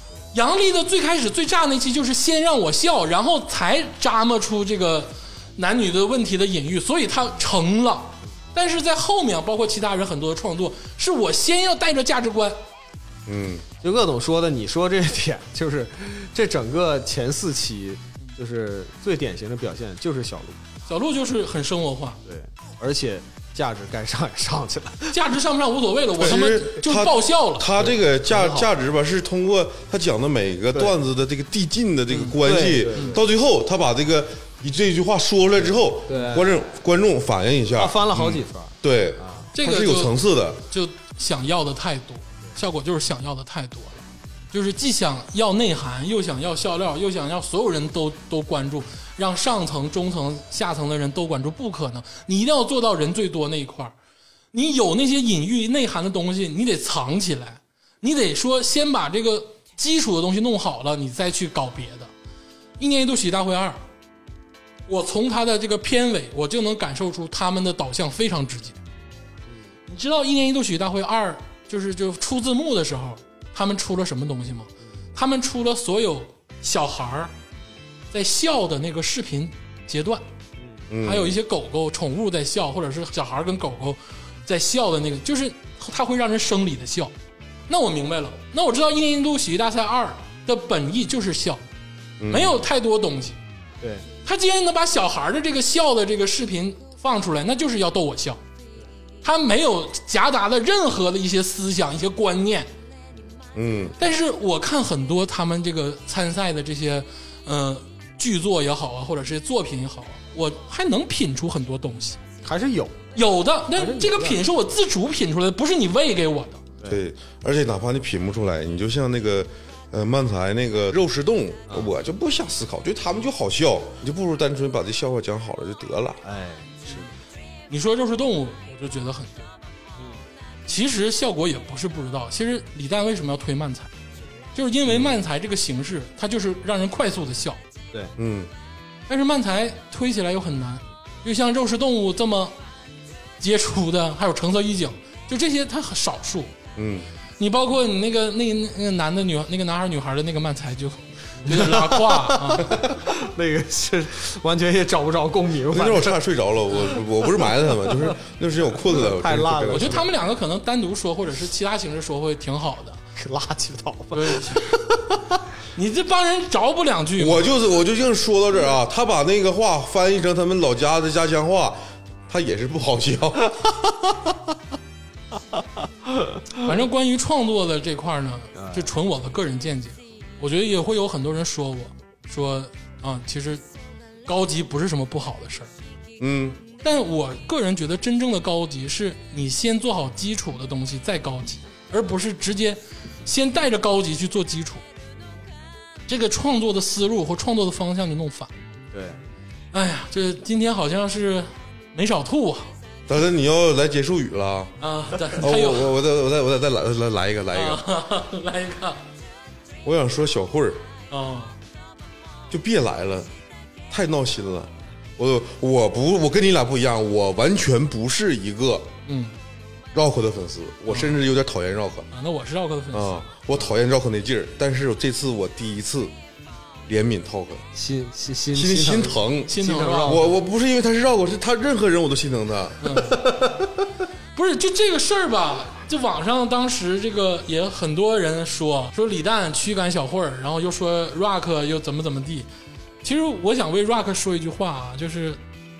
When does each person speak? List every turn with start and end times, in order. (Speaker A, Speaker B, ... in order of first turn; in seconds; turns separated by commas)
Speaker A: 0.3-12.6, Speaker B: 13.3-13.7, Speaker C: 13.8-20.6, Speaker A: 20.9-22.2, Speaker C: 22.3-25.2, Speaker A: 25.1-27.7, Speaker C: 26.2-26.5, Speaker B: 26.2-40.6, Speaker C: 27.8-28.7, Speaker A: 32.1-32.4, Speaker C: 32.4-33.2, Speaker C: 36.1-36.6, Speaker C: 37.7-39.5, Speaker A: 39.5-54.0, Speaker A: 54.5-62.1, Speaker A: 62.8-63.8, Speaker A: 64.9-68.8, Speaker C: 69.5-69.7, Speaker A: 69.9-77.3, Speaker A: 78.1-80.2, Speaker C: 80.6-80.9, Speaker B: 80.9-81.4, Speaker A: 81.0-87.1, Speaker A: 87.7-91.6, Speaker B: 92.2-92.6, Speaker A: 92.3-93.4, Speaker C: 93.8-94.1, Speaker A: 94.2-98.4, Speaker A: 99.2-102.7, Speaker B: 103.5-104.0, Speaker A: 104.0-112.2, Speaker C: 112.5-113.0, Speaker A: 113.2-116.6, Speaker C: 113.7-114.4, Speaker B: 116.9-126.2, Speaker C: 126.2-127.1, Speaker A: 127.7-129.5, Speaker C: 130.0-130.2, Speaker A: 130.7-133.9, Speaker A: 134.5-137.6, Speaker B: 138.2-138.5, Speaker A: 139.1-142.6, Speaker A: 143.4-146.5, Speaker B: 146.8-147.1, Speaker A: 147.4-152.8, Speaker C: 151.4-156.2, Speaker B: 155.7-160.1, Speaker C: 156.8-158.2, Speaker C: 158.8-160.1, Speaker A: 159.7-163.0, Speaker C: 163.2-165.4, Speaker A: 164.1-164.8, Speaker A: 165.7-167.5, Speaker B: 167.2-173.7, Speaker A: 176.5-183.6, Speaker C: 178.6-178.9, Speaker A: 184.3-185.7, Speaker B: 186.2-186.6, Speaker A: 186.8-194.8, Speaker A: 196.1-198.5, Speaker C: 198.9-199.2, Speaker A: 199.7-202.7, Speaker B: 203.1-204.8, Speaker A: 204.8-205.9, Speaker B: 205.3-207.8, Speaker A: 207.5-209.0, Speaker B: 209.8-210.8, Speaker A: 211.1-211.6, Speaker B: 212.5-213.3, Speaker B: 213.9-218.9, Speaker A: 219.1-219.3, Speaker B: 219.9-222.1, Speaker A: 220.9-221.2, Speaker A: 222.1-223.3, Speaker B: 222.9-226.1, Speaker B: 226.9-227.7, Speaker C: 227.7-230.4, Speaker B: 228.5-232.8, Speaker A: 229.5-230.3, Speaker A: 232.8-233.2, Speaker C: 233.1-233.8, Speaker A: 234.3-242.5, Speaker A: 243.0-245.4